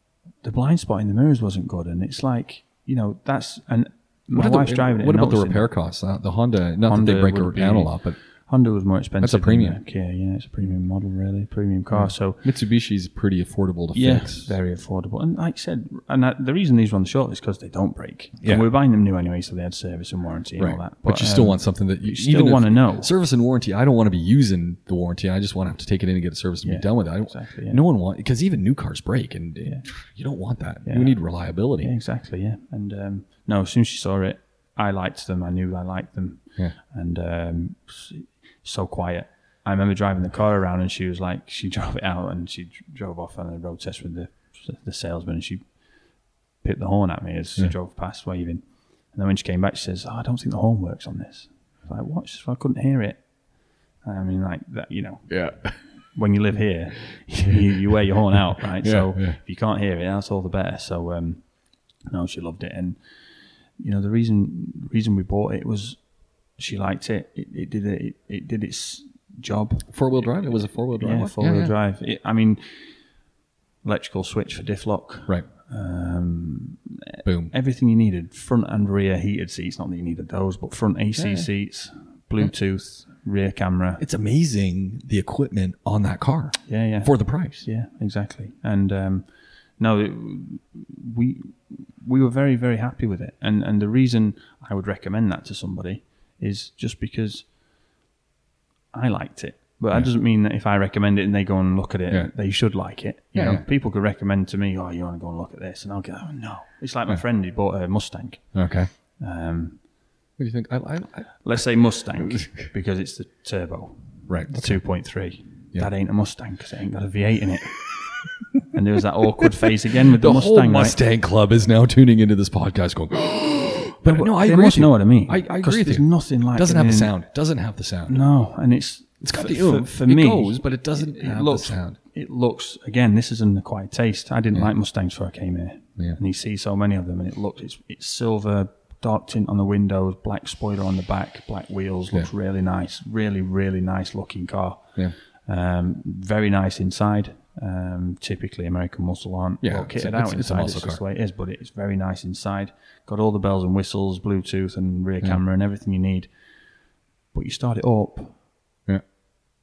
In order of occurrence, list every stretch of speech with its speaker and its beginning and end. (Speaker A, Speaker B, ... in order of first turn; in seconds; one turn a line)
Speaker A: 0.4-5.7
Speaker B: 4.3-8.2
Speaker A: 6.8-12.4
Speaker B: 9.2-9.8
Speaker B: 11.9-14.6
Speaker A: 13.9-23.1
Speaker B: 20.6-31.9
Speaker A: 26.6-27.8
Speaker A: 30.9-31.2
Speaker A: 31.8-45.7
Speaker A: 46.6-53.2
Speaker A: 54.0-61.5
Speaker B: 55.3-55.8
Speaker B: 58.5-59.4
Speaker A: 62.1-63.0
Speaker A: 63.8-66.0
Speaker A: 66.6-69.9
Speaker B: 69.9-71.7
Speaker A: 71.0-72.9
Speaker A: 73.8-84.0
Speaker B: 77.2-77.5
Speaker B: 81.2-81.5
Speaker B: 84.0-87.7
Speaker A: 86.7-97.5
Speaker A: 98.9-108.5
Speaker B: 103.3-103.7
Speaker B: 108.5-108.9
Speaker A: 109.2-109.8
Speaker B: 110.4-111.3
Speaker A: 111.4-117.9
Speaker B: 114.3-114.8
Speaker A: 118.7-121.0
Speaker B: 120.0-128.2
Speaker A: 124.0-127.1
Speaker A: 128.1-144.9
Speaker B: 129.2-132.0
Speaker A: 145.5-156.3
Speaker B: 149.6-151.0
Speaker A: 157.3-158.4